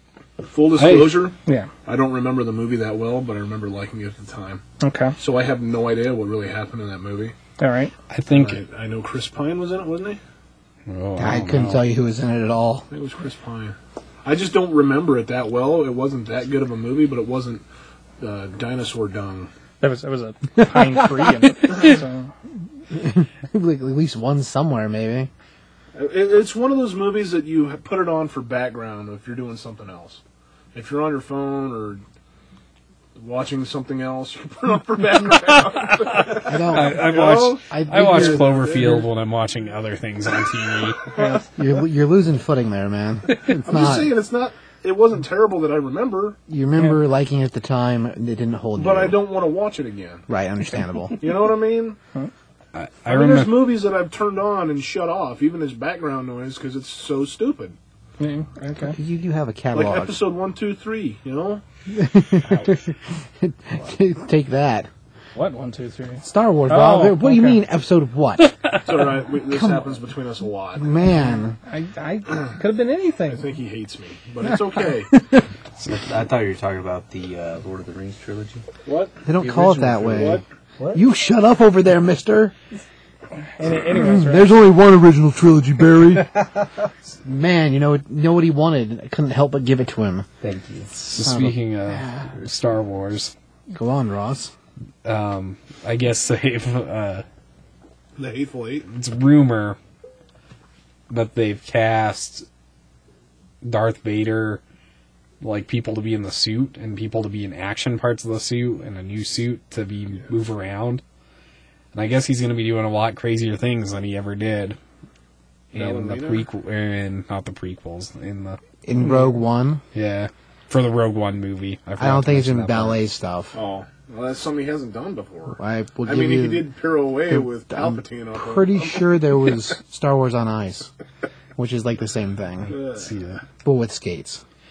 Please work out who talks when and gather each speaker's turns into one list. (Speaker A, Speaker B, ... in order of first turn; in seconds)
Speaker A: 0.4-4.6, 5.2-7.3, 8.3-10.2, 12.9-17.6, 18.2-19.5, 25.9-30.2, 30.7-32.0, 33.1-39.1, 41.1-41.4, 43.6-46.4, 48.8-50.2, 51.2-52.0, 53.0-57.8, 59.7-61.6, 68.8-70.9, 73.3-75.1, 78.8-79.2, 80.0-80.4, 98.2-98.8, 115.7-116.4, 123.5-129.1, 132.7-133.1
Speaker B: 0.8-1.3, 8.1-8.6, 10.9-11.8, 36.0-41.2, 52.7-53.8, 91.0-93.3, 95.0-97.2, 98.9-99.8, 101.1-102.5, 103.6-104.6, 105.4-111.0, 111.9-114.8, 115.7-118.6, 119.9-123.0, 132.9-133.4
Speaker C: 1.4-1.7, 4.8-5.2, 7.6-7.9, 19.8-22.3, 58.2-59.0, 65.3-67.6, 71.3-73.5, 83.6-84.5
Speaker D: 11.2-12.8, 20.6-20.9, 22.9-25.3, 36.4-38.6, 41.5-44.1, 46.5-49.2, 50.3-51.2, 58.9-60.2, 61.9-64.9, 66.2-68.6, 69.5-70.0, 70.8-71.6, 74.4-75.5, 79.2-80.4, 80.9-82.5, 83.9-86.3, 87.2-90.3, 91.2-92.3, 93.7-94.5, 118.8-119.8, 122.0-123.6, 125.6-126.7, 127.3-130.9, 131.6-132.8, 133.6-134.4
Speaker E: 75.9-78.6, 79.4-81.0, 90.4-90.9